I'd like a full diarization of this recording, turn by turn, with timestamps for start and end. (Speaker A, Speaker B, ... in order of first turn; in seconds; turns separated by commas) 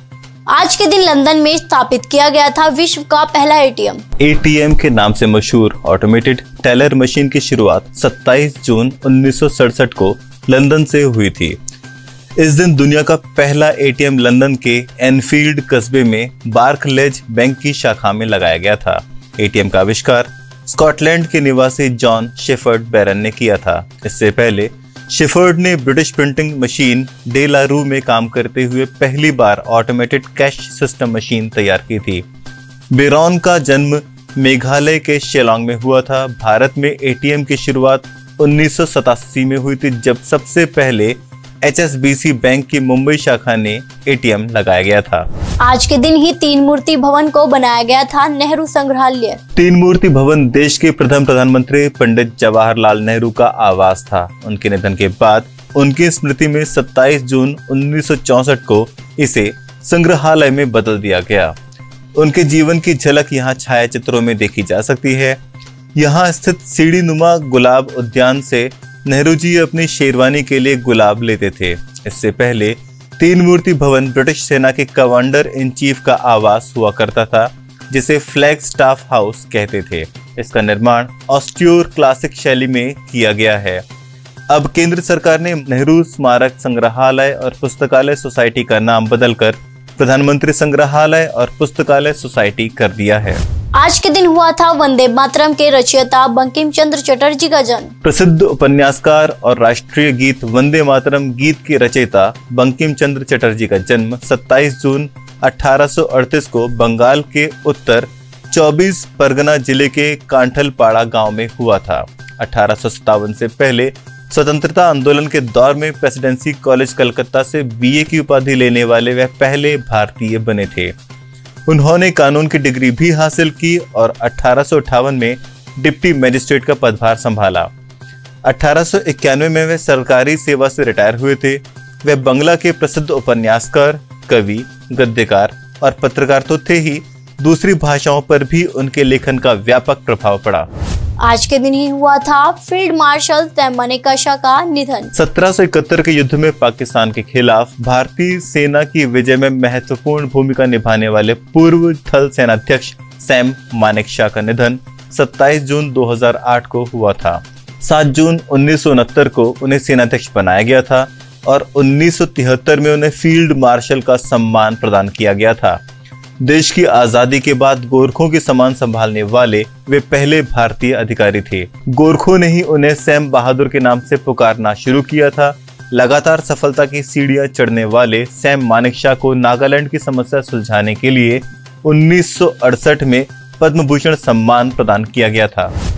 Speaker A: 0.5-4.0, Speaker B: 4.2-11.6, Speaker B: 12.4-32.2, Speaker B: 32.9-45.3, Speaker A: 45.6-49.4, Speaker B: 49.6-61.6, Speaker B: 62.1-65.4, Speaker B: 66.0-83.8, Speaker B: 84.5-93.4, Speaker A: 93.8-97.9, Speaker B: 98.0-120.9, Speaker B: 121.7-127.7, Speaker B: 128.4-140.7, Speaker A: 141.2-145.1, Speaker B: 145.2-165.8, Speaker B: 166.4-185.7